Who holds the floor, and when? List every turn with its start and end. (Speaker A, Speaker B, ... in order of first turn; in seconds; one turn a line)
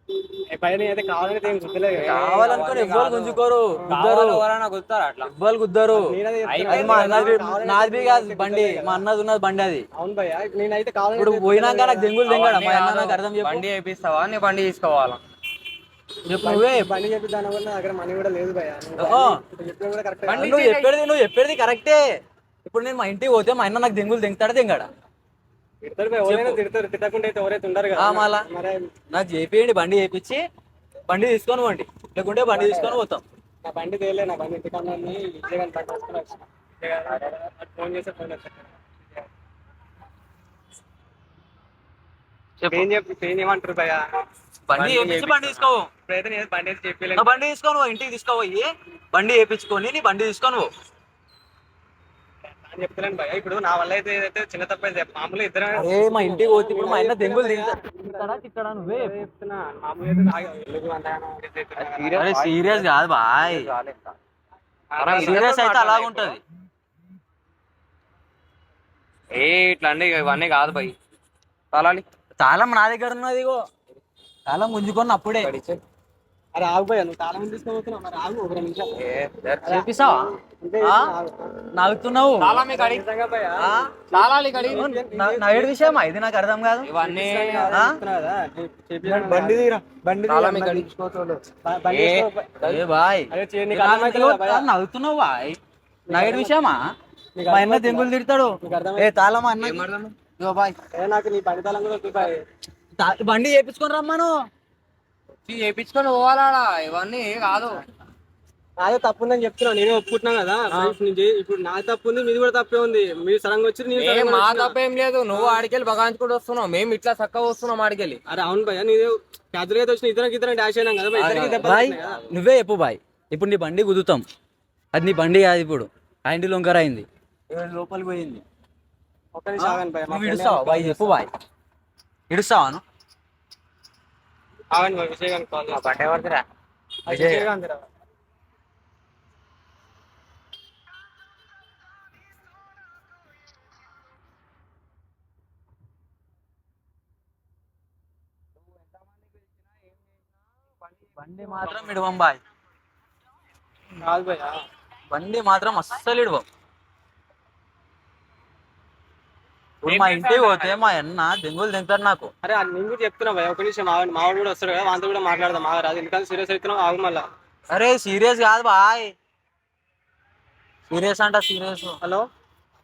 Speaker A: 0.5-2.9
Speaker B: 1.9-5.3
Speaker C: 2.1-4.5
Speaker C: 5.2-6.0
Speaker A: 5.9-9.0
Speaker B: 6.4-7.3
Speaker C: 6.6-9.8
Speaker A: 10.0-12.2
Speaker C: 11.2-13.6
Speaker B: 12.2-15.2
Speaker C: 16.3-16.9
Speaker A: 16.4-20.6
Speaker C: 19.0-19.4
Speaker C: 20.3-22.0
Speaker B: 20.3-20.9
Speaker C: 22.6-24.9
Speaker A: 25.8-28.9
Speaker C: 26.3-26.6
Speaker C: 28.0-28.5
Speaker C: 29.1-30.4
Speaker C: 31.1-33.2
Speaker A: 32.5-33.0
Speaker A: 33.6-38.9
Speaker C: 42.6-42.9
Speaker A: 42.7-44.0
Speaker C: 44.7-45.9
Speaker A: 44.7-47.4
Speaker C: 47.1-50.7
Speaker A: 52.7-62.2
Speaker C: 55.7-59.0
Speaker B: 61.8-62.9
Speaker C: 62.1-63.7
Speaker B: 63.4-64.1
Speaker B: 64.9-66.4
Speaker A: 65.1-65.4
Speaker C: 65.1-66.4
Speaker B: 69.3-70.9
Speaker B: 71.7-72.0
Speaker C: 72.4-73.6
Speaker C: 74.5-75.5
Speaker B: 75.4-75.8
Speaker A: 76.5-78.9
Speaker B: 79.0-79.8
Speaker C: 79.6-81.1
Speaker A: 79.7-81.5
Speaker C: 81.7-82.6
Speaker B: 82.4-83.0
Speaker A: 82.7-86.0
Speaker C: 83.6-83.9
Speaker B: 84.1-84.8
Speaker C: 84.7-86.9
Speaker B: 86.8-87.8
Speaker A: 87.0-89.8
Speaker C: 87.7-88.0
Speaker B: 89.1-89.6
Speaker B: 90.2-92.8
Speaker A: 91.6-92.5
Speaker C: 92.6-95.6
Speaker A: 93.3-94.7
Speaker A: 96.1-96.5
Speaker C: 96.1-96.8
Speaker A: 97.3-98.1
Speaker C: 97.5-100.8
Speaker A: 98.6-99.3
Speaker B: 99.6-100.1
Speaker A: 100.9-102.4
Speaker C: 103.0-104.3
Speaker B: 105.5-107.8
Speaker A: 108.8-114.8
Speaker B: 113.9-118.2
Speaker A: 115.3-115.7
Speaker A: 118.3-122.2
Speaker C: 121.2-124.2
Speaker B: 121.2-122.3
Speaker C: 124.9-128.4
Speaker A: 129.3-131.2
Speaker C: 129.6-131.3
Speaker C: 132.3-132.8
Speaker A: 134.7-136.1
Speaker B: 135.7-136.4
Speaker A: 137.1-137.8
Speaker C: 137.1-137.5
Speaker C: 151.2-152.4
Speaker A: 154.0-154.6
Speaker C: 155.1-156.4
Speaker C: 159.8-162.3
Speaker B: 159.8-160.8
Speaker A: 162.4-167.2
Speaker C: 167.7-169.1
Speaker C: 170.9-172.0